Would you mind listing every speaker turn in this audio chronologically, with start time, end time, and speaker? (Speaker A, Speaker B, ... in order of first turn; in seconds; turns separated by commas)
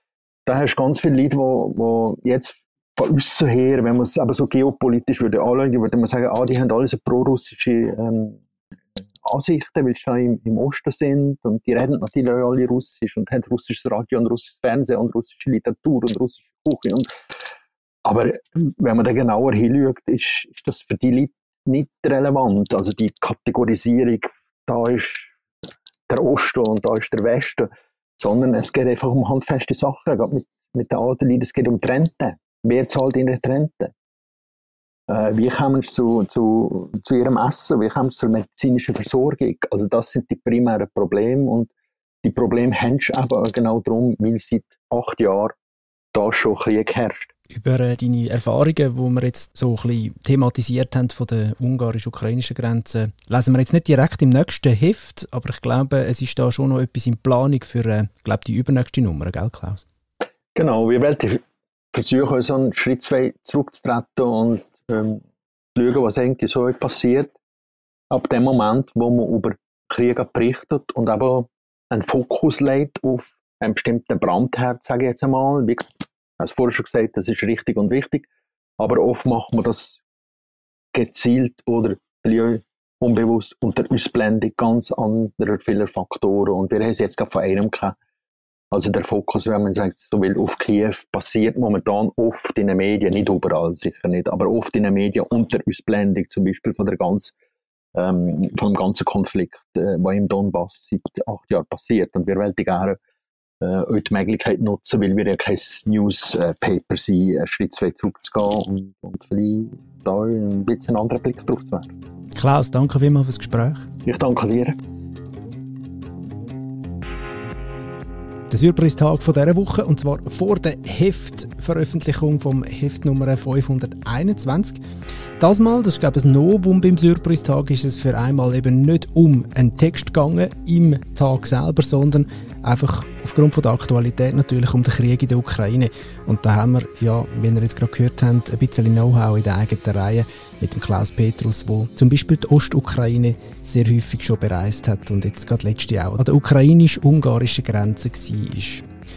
Speaker A: 0.5-8.4, Speaker A: 9.2-17.1, Speaker A: 18.0-25.3, Speaker A: 26.1-33.9, Speaker A: 35.1-41.7, Speaker A: 42.2-45.5, Speaker A: 46.1-47.3, Speaker B: 47.5-59.8, Speaker A: 60.5-65.2, Speaker A: 65.8-67.3, Speaker A: 68.1-75.9, Speaker A: 76.4-78.3, Speaker A: 78.8-80.0, Speaker A: 80.9-88.0, Speaker A: 88.7-97.3, Speaker A: 97.9-103.0, Speaker A: 103.6-111.9, Speaker B: 112.3-113.9, Speaker A: 114.0-114.8, Speaker B: 118.5-124.8, Speaker B: 125.4-148.8